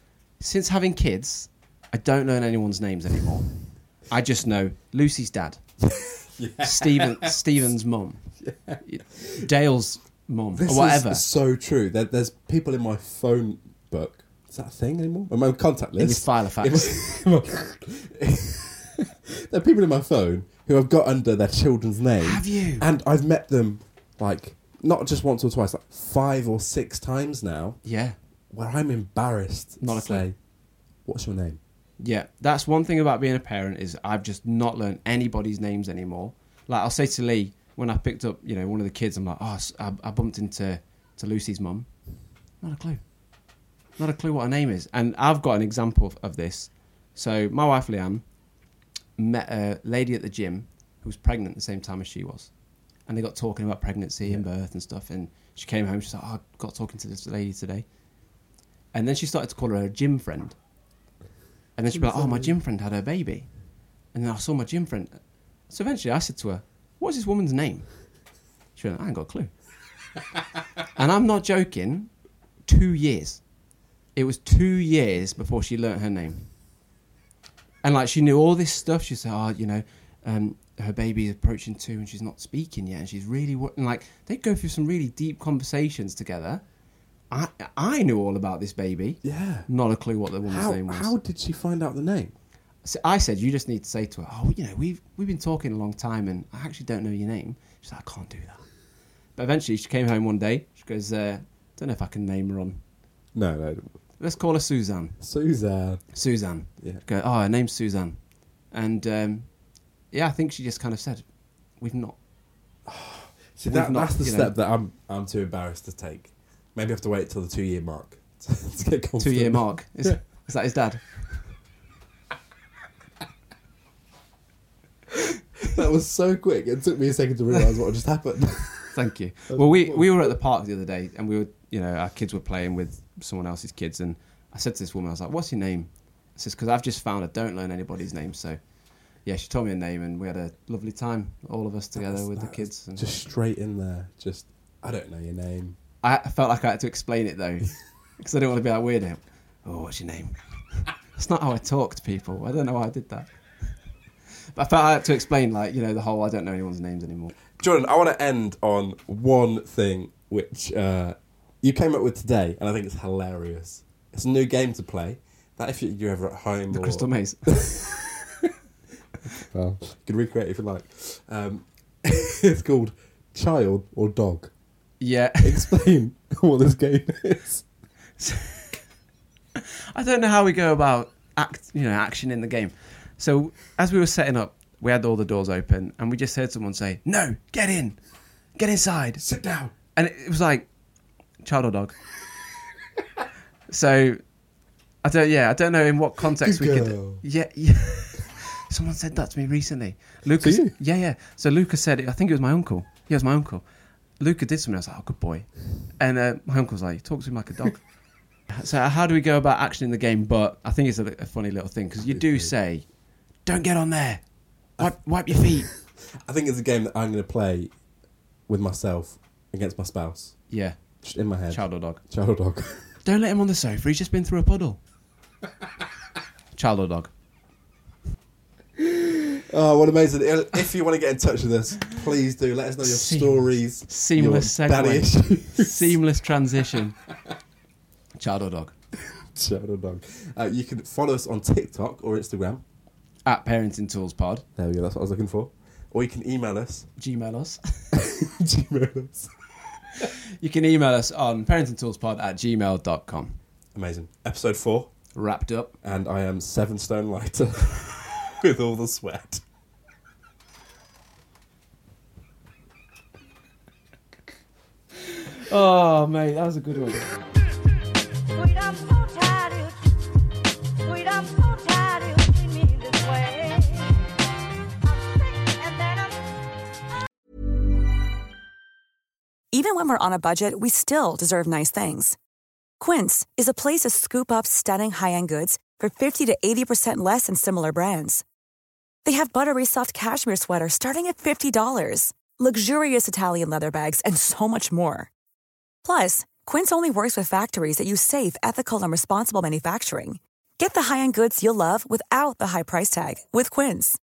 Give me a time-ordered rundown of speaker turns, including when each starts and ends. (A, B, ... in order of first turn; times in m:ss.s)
0:00.4-0:05.6 A
0:05.8-0:07.7 B
0:06.6-0:11.2 A
0:08.4-0:09.5 B
0:10.6-0:27.8 B
0:16.0-0:17.0 A
0:22.2-0:22.9 A
0:27.8-0:28.2 A
0:28.5-0:30.4 B
0:29.8-0:30.2 A
0:31.0-0:31.6 B
0:32.0-0:41.9 A
0:42.6-0:43.0 A
0:44.0-0:48.3 A
0:49.2-0:52.5 A
0:53.1-0:57.8 A
0:58.9-1:00.6 A
1:01.8-1:03.5 A
1:01.9-1:02.5 B
1:04.1-1:07.9 A
1:08.8-1:09.5 A
1:11.0-1:12.1 A
1:12.7-1:13.4 A
1:14.2-1:16.5 A
1:17.8-1:26.6 A
1:27.3-1:31.2 A
1:29.2-1:29.7 B
1:30.5-1:32.3 B
1:32.8-1:38.6 A
1:39.4-1:42.8 A
1:43.3-1:43.9 B
1:44.2-1:45.2 A
1:45.2-1:47.0 B
1:46.1-1:49.5 A
1:50.1-1:51.2 A
1:51.8-1:52.2 A
1:52.9-2:00.2 B
1:53.7-1:54.6 A
1:59.2-2:01.2 A
2:05.6-2:09.0 B
2:08.9-2:18.6 A
2:09.5-2:10.3 B
2:19.2-2:23.1 A
2:22.0-2:25.8 B
2:26.0-2:33.3 A
2:34.6-2:37.4 A
2:37.6-2:48.5 B
2:46.7-2:47.6 A
2:49.5-2:54.5 B
2:55.0-2:55.8 A
2:55.4-2:57.6 B
2:58.2-2:58.7 A
2:59.6-3:08.0 A
3:08.6-3:09.2 A
3:09.2-3:09.7 B
3:10.0-3:10.7 A
3:11.4-3:12.0 A
3:13.7-3:14.2 A
3:15.0-3:23.7 A
3:16.4-3:17.2 B
3:20.4-3:20.8 B
3:24.2-3:27.8 A
3:28.5-3:32.9 A
3:32.0-3:32.5 B
3:33.4-3:34.2 A
3:34.8-3:37.7 B
3:34.8-3:35.7 A
3:38.5-3:40.4 B
3:40.5-3:40.8 A
3:41.0-3:42.9 B
3:41.5-3:42.0 A
3:43.0-3:44.8 A
3:46.5-3:47.1 A
3:48.8-3:56.0 B
3:52.8-3:57.0 A
3:58.2-3:58.7 A
3:59.0-4:02.6 B
4:03.3-4:04.4 A
4:04.6-4:06.9 B
4:07.0-4:07.8 A
4:07.9-4:09.3 B
4:10.4-4:13.4 A
4:13.8-4:14.9 B
4:15.2-4:15.8 A
4:15.8-4:19.4 B
4:25.2-4:27.2 A
4:28.5-4:29.7 C
4:31.0-4:33.6 C
4:39.5-4:42.2 D
4:42.8-4:48.2 D
4:49.0-4:55.1 D
4:55.8-5:04.0 D